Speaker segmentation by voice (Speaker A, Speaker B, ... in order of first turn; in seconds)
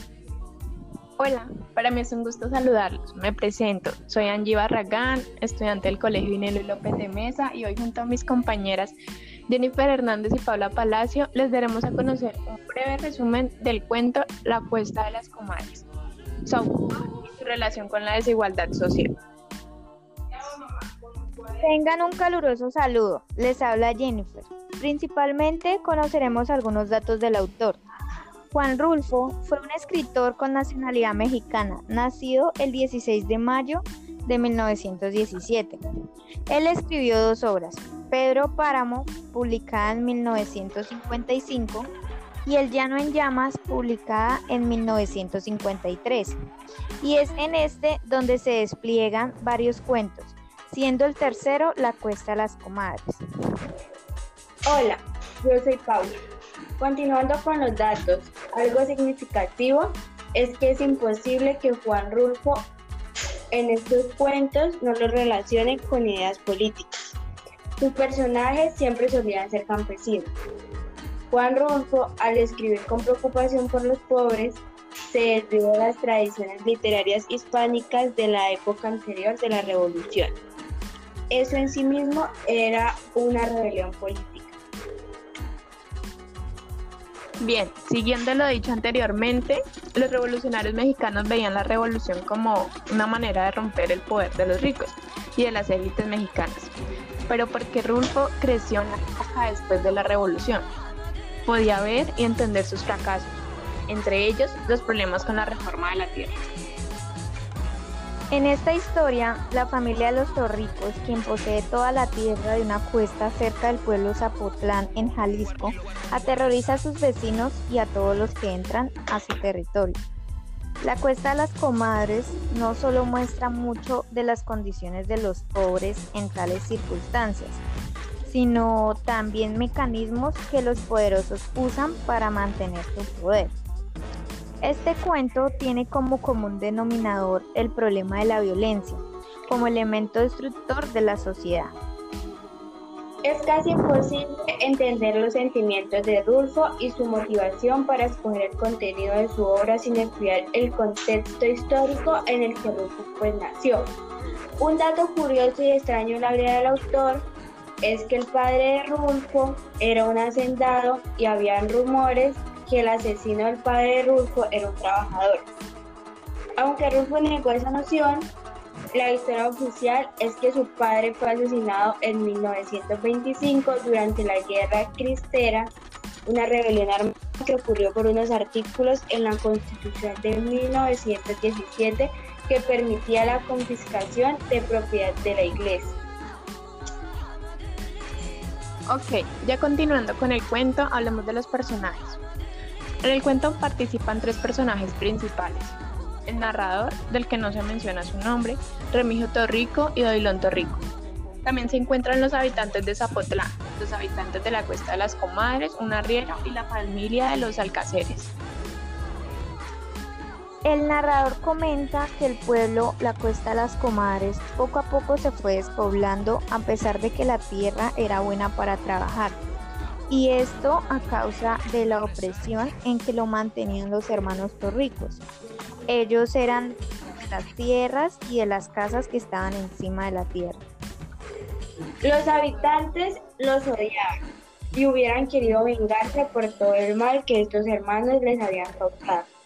Speaker A: 1.2-8.9, 9.5-15.9, 16.4-19.1, 87.4-96.7, 97.3-100.7, 101.4-106.4, 188.9-192.2, 193.0-200.8, 201.4-208.3
Speaker B: 21.6-27.8, 28.5-35.8, 36.5-41.9, 42.4-46.4, 47.0-53.2, 108.3-120.0, 120.8-127.6, 128.2-133.6, 134.6-141.7, 210.6-219.4, 220.1-225.2, 225.9-230.6
Speaker C: 54.6-56.1, 56.8-62.7, 63.5-67.2, 67.8-70.3, 71.3-80.4, 81.3-84.5, 143.2-153.9, 154.6-157.3, 157.8-165.4, 166.6-168.3, 168.9-175.7, 176.2-186.0, 232.0-234.2, 234.7-239.3